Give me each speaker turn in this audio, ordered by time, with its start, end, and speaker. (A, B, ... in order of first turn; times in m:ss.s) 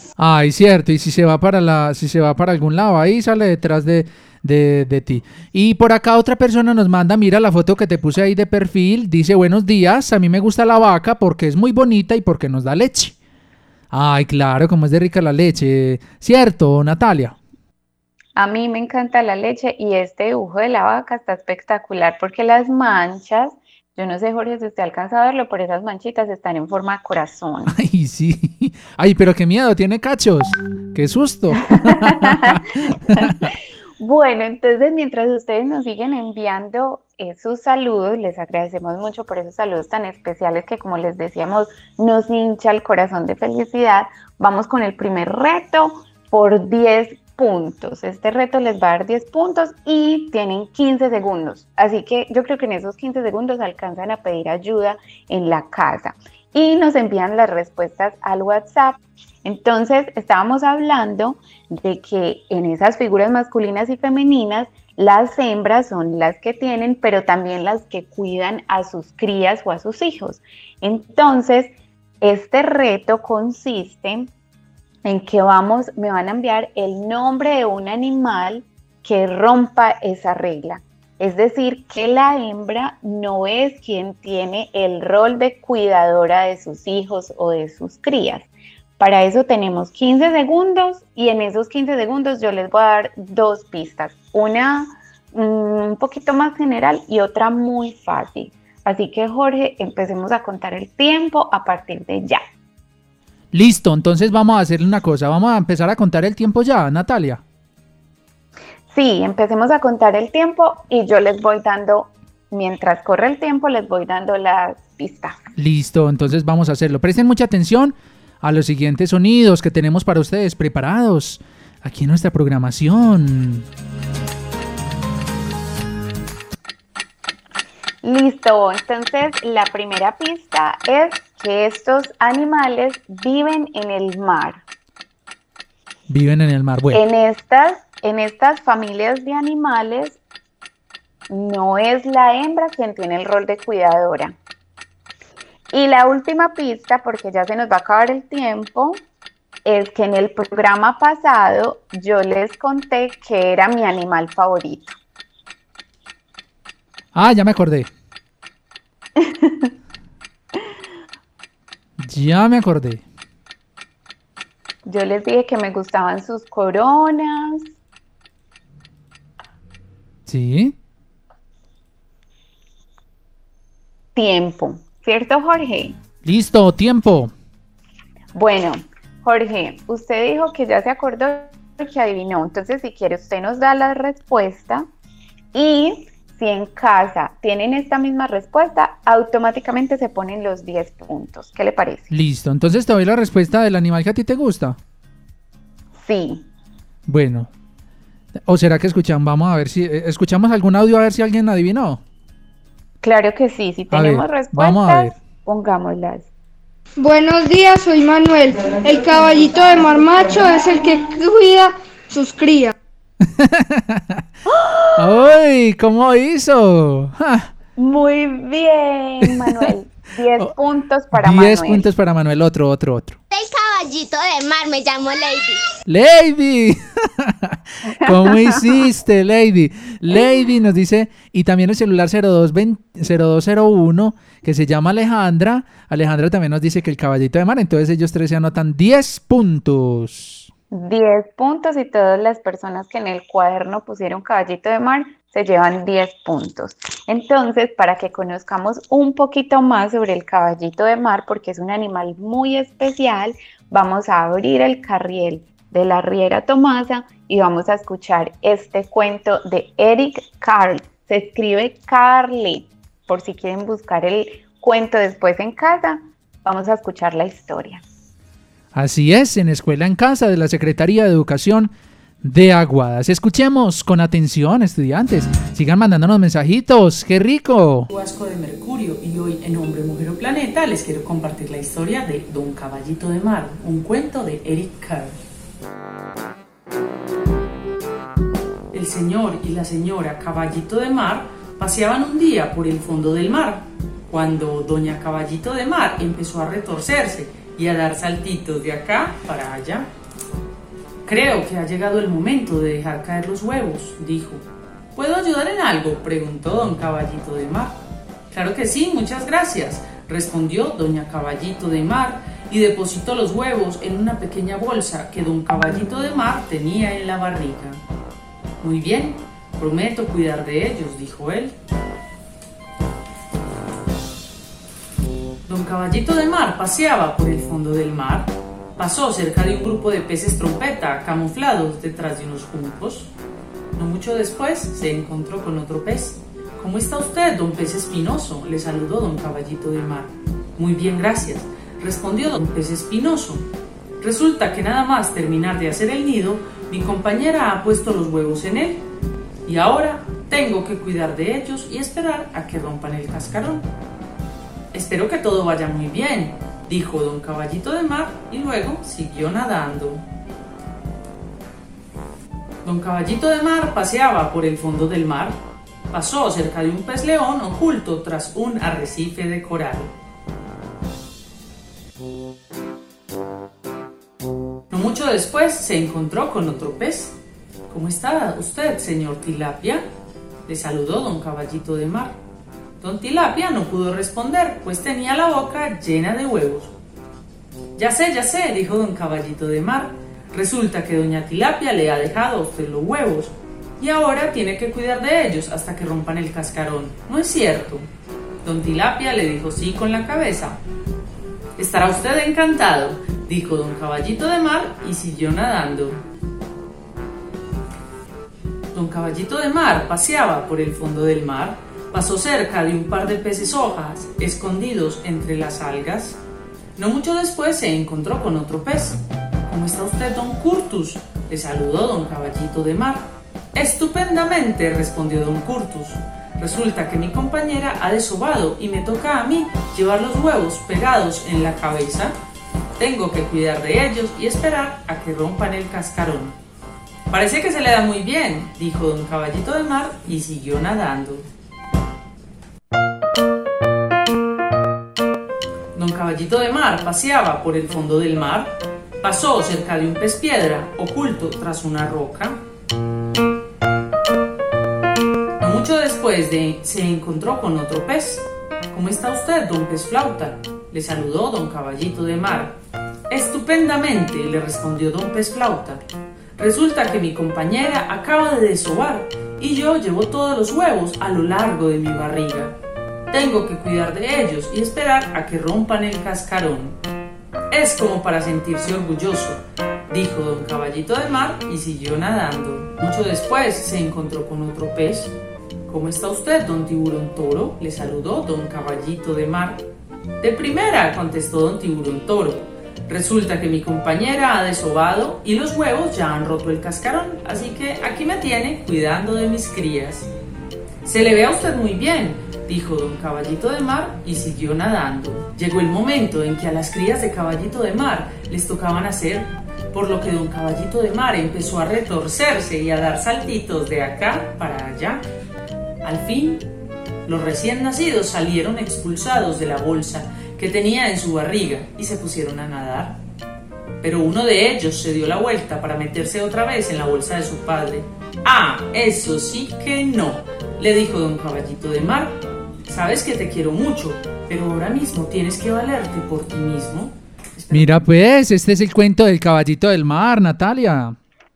0:00.2-0:13.2 A
0:13.9-0:17.4 A
0:18.4-0:27.7 B
0:27.7-0:33.4 A
0:31.9-0:32.6 B
0:33.2-1:14.3 B
1:15.0-1:28.5 B
1:29.0-1:42.4 B
1:43.5-1:47.4 A
1:48.9-1:55.4 B
1:55.6-2:03.6 A
2:08.0-2:14.6 B
2:16.1-2:17.0 A
2:16.9-2:20.2 B
2:21.3-2:24.3 B
2:25.7-2:29.0 B
2:29.6-2:34.9 B
2:37.1-2:37.9 A
2:39.2-2:39.7 B
2:42.0-2:43.0 A
2:44.8-2:47.7 B
2:50.3-2:50.7 A
2:54.1-2:56.0 B
2:56.2-2:57.3 A
2:58.3-3:04.9 B
3:05.5-3:12.1 B
3:12.1-3:14.8 A
3:16.0-3:16.4 B
3:17.1-3:17.5 A
3:18.4-3:22.0 A
3:23.0-3:26.3 B
3:23.9-3:25.2 A
3:27.0-3:32.7 C
3:33.2-3:34.2 A
3:35.0-3:37.5 A
3:37.8-3:41.9 B
3:39.3-3:39.6 A
3:41.1-3:43.2 A
3:43.3-3:45.6 D
3:45.9-4:00.5 A
3:48.0-3:48.6 B
4:00.7-4:27.8 B
4:28.7-4:31.7 A
4:32.2-4:37.9 A
4:37.9-4:45.1 E
4:48.7-4:59.9 E
5:01.0-5:07.8 E
5:08.3-5:17.8 E
5:18.6-5:21.5 E
5:25.4-5:33.1 E
5:33.7-5:43.4 E
5:44.0-5:48.8 E
5:49.4-5:53.6 E
5:54.7-6:00.0 E
6:02.6-6:05.4 E
6:05.9-6:09.9 E
6:14.7-6:17.2 E
6:17.7-6:19.8 E
6:20.4-6:22.2 E
6:22.8-6:26.7 E
6:27.8-6:37.9 E
6:38.4-6:40.6 E
6:41.6-6:46.0 E
6:48.7-6:56.2 E
6:56.8-7:12.2 E
7:12.8-7:16.4 E
7:17.1-7:21.2 E
7:25.7-7:32.4 E
7:35.4-7:42.6 E
7:43.1-7:45.8 E
7:46.4-7:52.5 E
7:53.1-7:56.8 E
7:57.5-8:05.1 E
8:05.7-8:09.6 E
8:10.2-8:20.1 E
8:20.8-8:35.0 E
8:35.8-8:36.4 E
8:37.0-8:43.0 E
8:43.8-8:57.6 E
8:57.5-9:01.0 A